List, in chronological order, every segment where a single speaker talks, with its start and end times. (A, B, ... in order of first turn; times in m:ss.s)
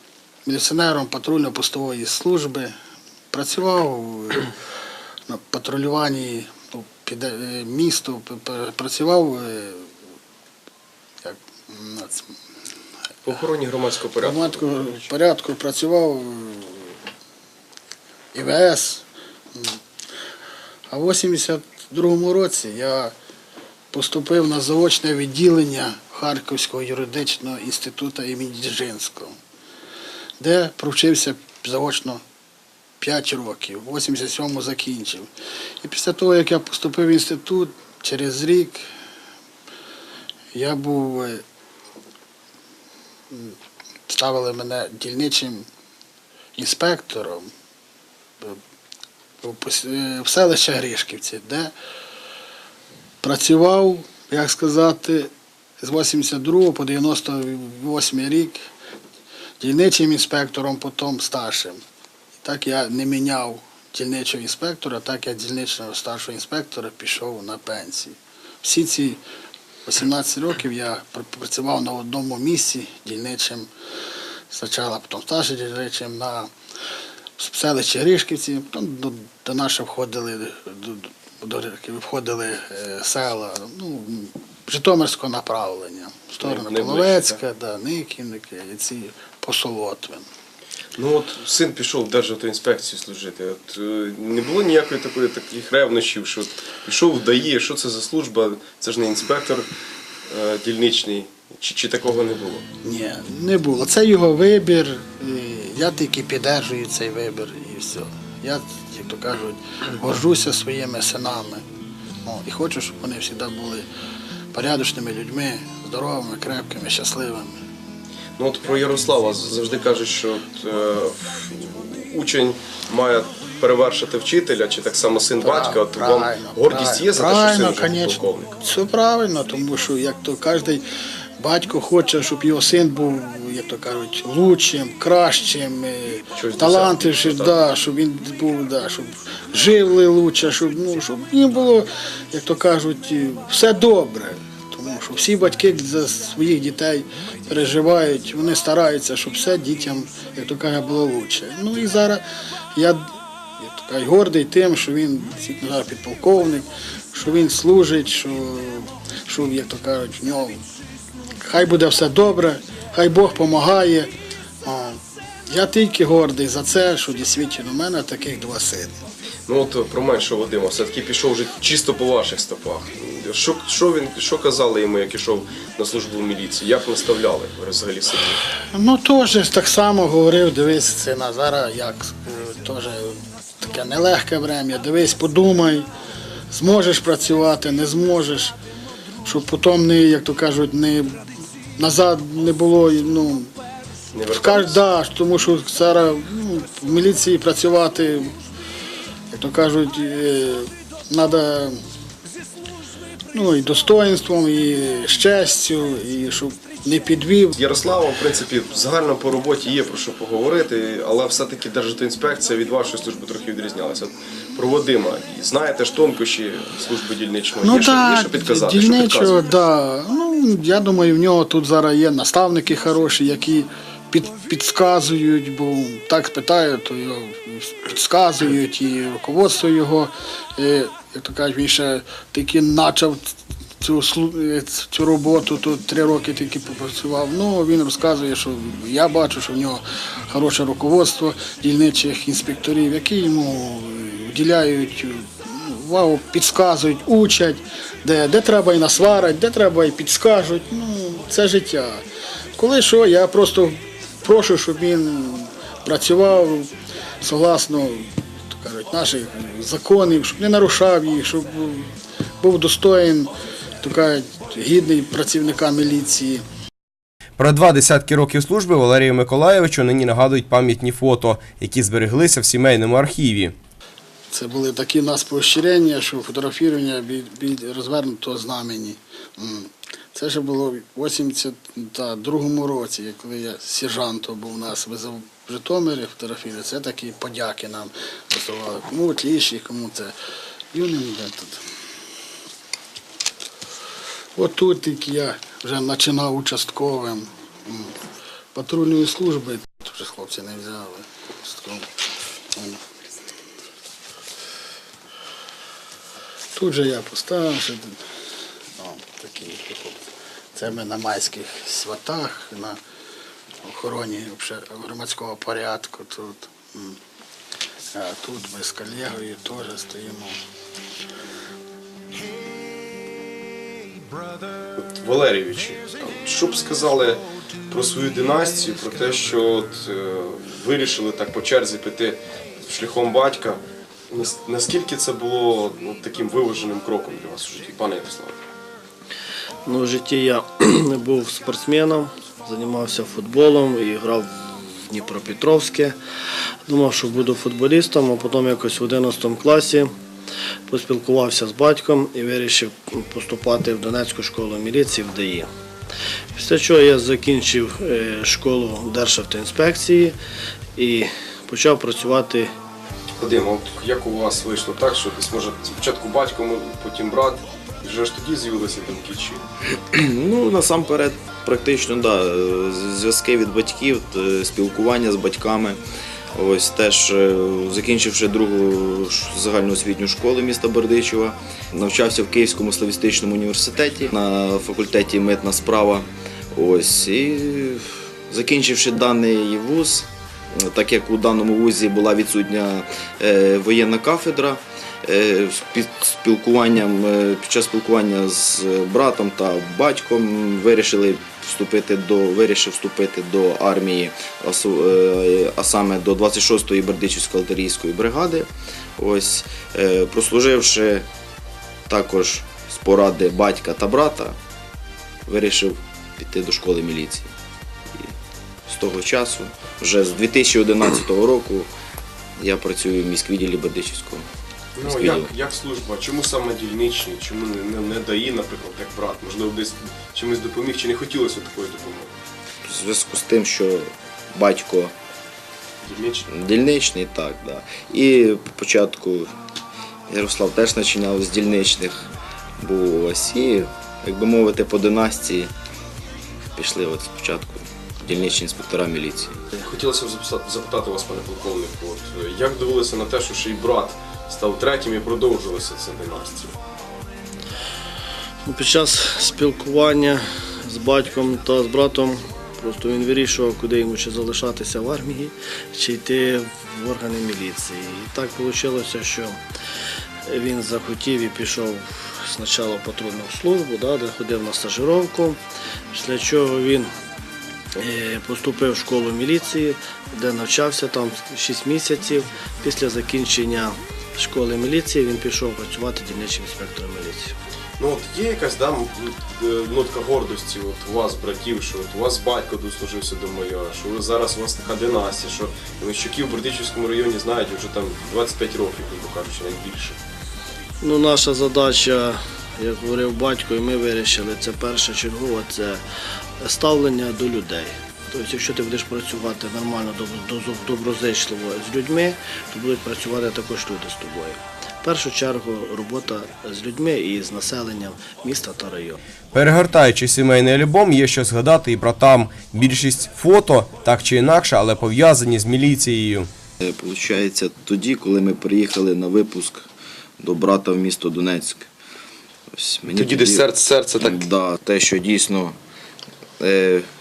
0:00.4-0:02.7 A
0:03.3-0:04.5 A
0:05.3-0:09.9 A
0:11.2-0:12.4 A
0:13.2-0:14.9 B
0:14.2-0:16.9 A
0:18.3-0:19.8 A
0:20.9-0:23.1 A
0:23.9-0:29.4 A
0:30.4-0:32.2 A
0:33.0-0:38.8 A
0:40.5-0:41.4 A
0:44.1-0:45.7 A
0:46.6-0:47.5 A
0:49.4-0:51.7 A
0:53.2-0:58.6 A
0:59.6-1:01.8 A
1:02.4-1:09.2 A
1:09.8-1:13.7 A
1:14.5-1:16.5 A
1:17.4-1:30.3 A
1:26.4-1:27.4 B
1:30.9-1:39.7 B
1:40.3-1:42.7 B
1:42.8-1:51.6 A
1:52.2-1:53.9 A
1:54.5-1:57.6 A
1:58.4-2:08.6 B
2:05.4-2:10.8 A
2:11.4-2:32.2 A
2:16.4-2:17.5 B
2:32.7-2:40.6 A
2:41.4-2:44.1 A
2:44.6-2:49.0 A
2:49.5-2:58.4 B
2:58.7-3:05.9 A
3:06.5-3:08.6 A
3:09.2-3:11.2 A
3:11.8-3:13.5 A
3:14.1-3:14.8 B
3:14.3-3:18.3 A
3:19.3-3:21.8 A
3:23.3-3:27.6 A
3:27.6-3:39.5 B
3:37.6-4:12.0 A
4:12.6-4:26.4 A
4:27.4-4:33.5 C
4:34.3-4:50.1 A
4:50.7-4:51.6 A
4:54.3-4:58.0 A
4:58.5-5:01.9 A
5:02.5-5:02.8 A
5:06.5-5:08.0 A
5:08.8-5:10.0 A
5:10.5-5:12.8 A
5:13.6-5:17.0 A
5:17.9-5:20.4 A
5:24.8-5:38.4 B
5:39.6-5:46.0 D
5:46.7-5:49.9 D
5:50.7-5:55.5 D
5:56.4-6:00.1 D
6:00.8-6:02.5 D
6:03.2-6:09.4 B
6:09.9-6:15.8 E
6:16.3-6:51.1 E
6:51.9-6:54.4 E
6:55.2-6:57.3 E
6:58.7-7:01.7 E
7:02.4-7:04.3 E
7:04.8-7:12.1 B
7:04.8-7:05.3 E
7:12.6-7:14.9 E
7:15.8-7:16.3 B
7:16.3-7:19.3 E
7:20.1-7:25.5 E
7:26.5-7:29.4 E
7:29.6-7:36.5 B
7:38.4-7:49.4 D
7:50.2-7:55.4 D
7:55.9-7:56.9 D
7:57.8-8:07.3 D
8:07.8-8:20.0 B
8:20.8-8:25.8 D
8:26.4-8:39.0 D
8:39.3-8:46.3 C
8:46.6-8:49.7 E
8:50.2-8:51.7 E
8:52.5-8:55.6 E
8:52.9-8:54.3 B
8:56.4-8:56.9 E